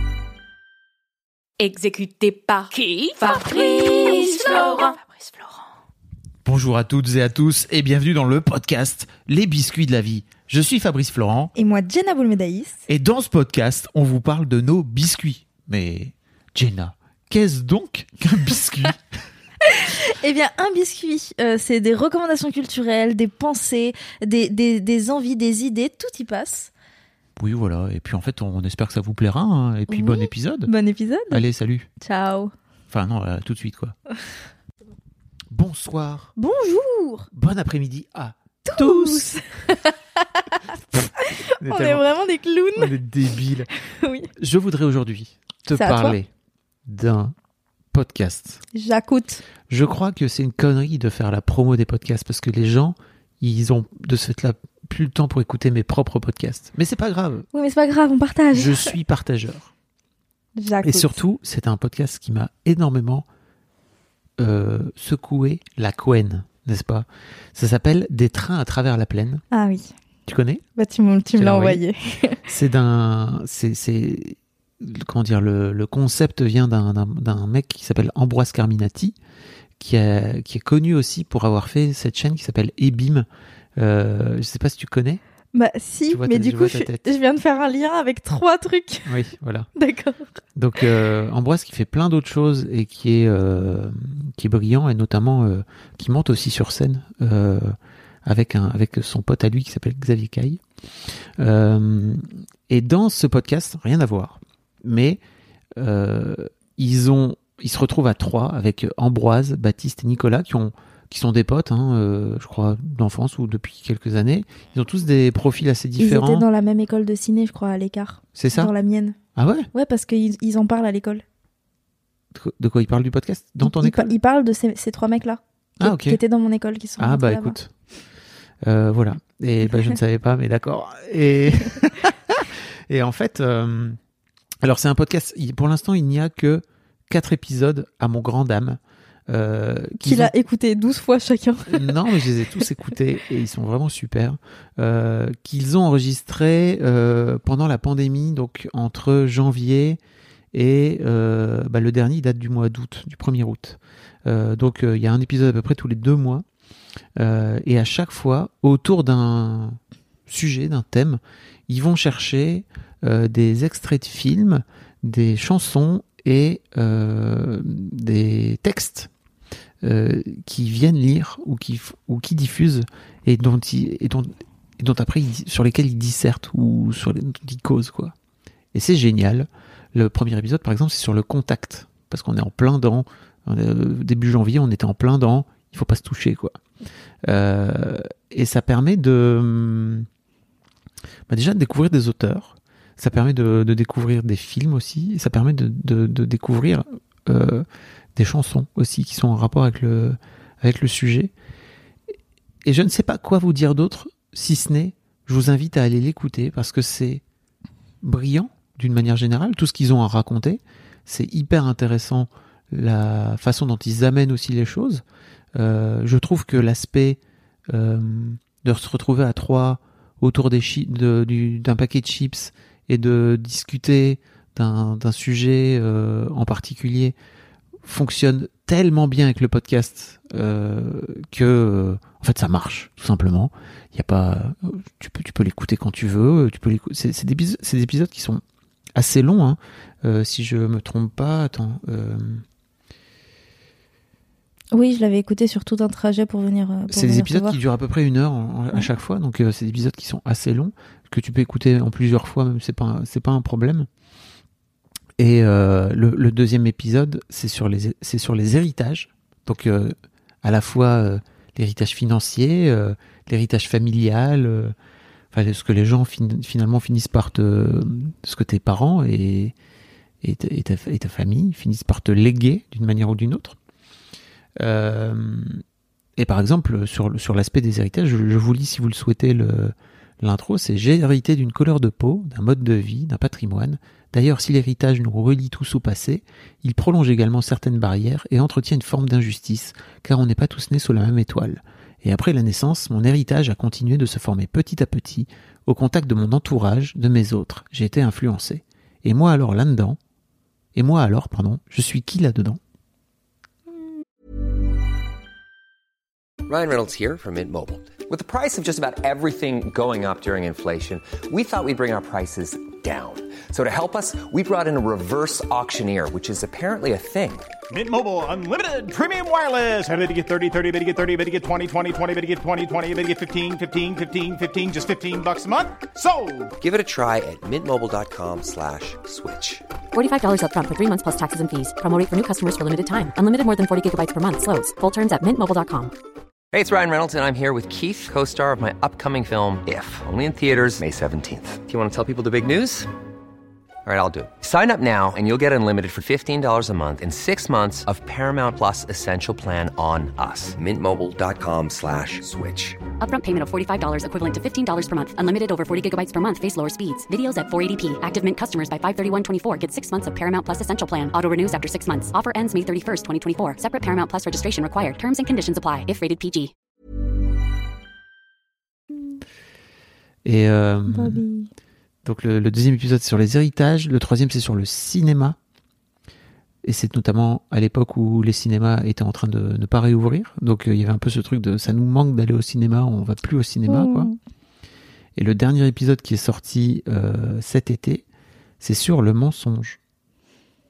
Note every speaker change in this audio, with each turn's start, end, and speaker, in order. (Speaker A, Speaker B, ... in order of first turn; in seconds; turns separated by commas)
Speaker A: 1.6-5.0, Speaker B: 6.5-11.5, Speaker C: 11.6-12.8, Speaker B: 12.9-19.0, Speaker C: 19.8-26.7, Speaker B: 27.4-30.7, Speaker C: 29.9-31.4, Speaker B: 31.3-31.9, Speaker C: 32.0-32.5, Speaker B: 32.9-34.0, Speaker B: 35.5-36.3, Speaker C: 36.4-37.3, Speaker B: 37.3-39.3, Speaker C: 38.7-40.6, Speaker B: 40.9-42.0, Speaker C: 41.2-42.9, Speaker B: 42.8-43.7, Speaker C: 44.0-44.3, Speaker B: 44.4-46.3, Speaker C: 45.7-46.2, Speaker B: 46.9-47.3, Speaker B: 47.9-48.6, Speaker C: 48.7-49.4, Speaker B: 49.7-57.5, Speaker C: 57.5-58.9, Speaker B: 58.5-59.7, Speaker C: 60.6-61.2, Speaker B: 60.8-63.3, Speaker B: 64.4-69.4, Speaker C: 69.5-69.9, Speaker B: 70.3-70.6, Speaker C: 70.8-72.4, Speaker B: 71.3-71.8, Speaker B: 72.5-79.2, Speaker B: 79.8-83.3, Speaker B: 83.8-85.2, Speaker C: 85.5-89.1, Speaker B: 86.1-87.0, Speaker B: 89.1-89.7, Speaker C: 89.8-90.3, Speaker B: 90.6-100.6, Speaker B: 101.4-105.2, Speaker B: 105.8-116.5, Speaker C: 116.0-119.2, Speaker B: 118.3-118.7, Speaker B: 119.4-119.7, Speaker C: 119.7-121.2, Speaker B: 122.3-124.1, Speaker C: 123.6-127.6, Speaker B: 125.8-126.2, Speaker B: 127.0-127.7, Speaker B: 128.6-134.0, Speaker B: 134.6-140.3, Speaker C: 140.0-142.2, Speaker B: 141.7-150.0, Speaker B: 150.5-156.4, Speaker B: 157.2-169.1, Speaker B: 169.8-178.1, Speaker B: 178.7-186.6, Speaker B: 187.3-190.1, Speaker B: 191.3-197.7, Speaker B: 198.2-201.3, Speaker B: 202.7-207.2, Speaker B: 208.0-215.0, Speaker B: 215.6-227.2, Speaker B: 227.8-238.4, Speaker B: 239.0-242.4, Speaker C: 244.7-247.6, Speaker B: 246.9-253.9, Speaker B: 255.2-264.7, Speaker B: 265.3-269.5, Speaker B: 270.2-273.6, Speaker B: 274.6-275.6, Speaker B: 276.2-300.0, Speaker B: 300.8-302.6, Speaker D: 306.5-317.5, Speaker E: 317.7-326.6, Speaker D: 326.6-329.6, Speaker F: 329.9-335.9, Speaker D: 336.5-342.9, Speaker D: 343.9-352.9, Speaker F: 353.0-366.5, Speaker B: 370.2-371.2, Speaker C: 370.9-371.5, Speaker B: 372.1-375.4, Speaker B: 376.6-384.1, Speaker C: 383.7-384.1, Speaker B: 385.2-388.1, Speaker B: 388.6-389.8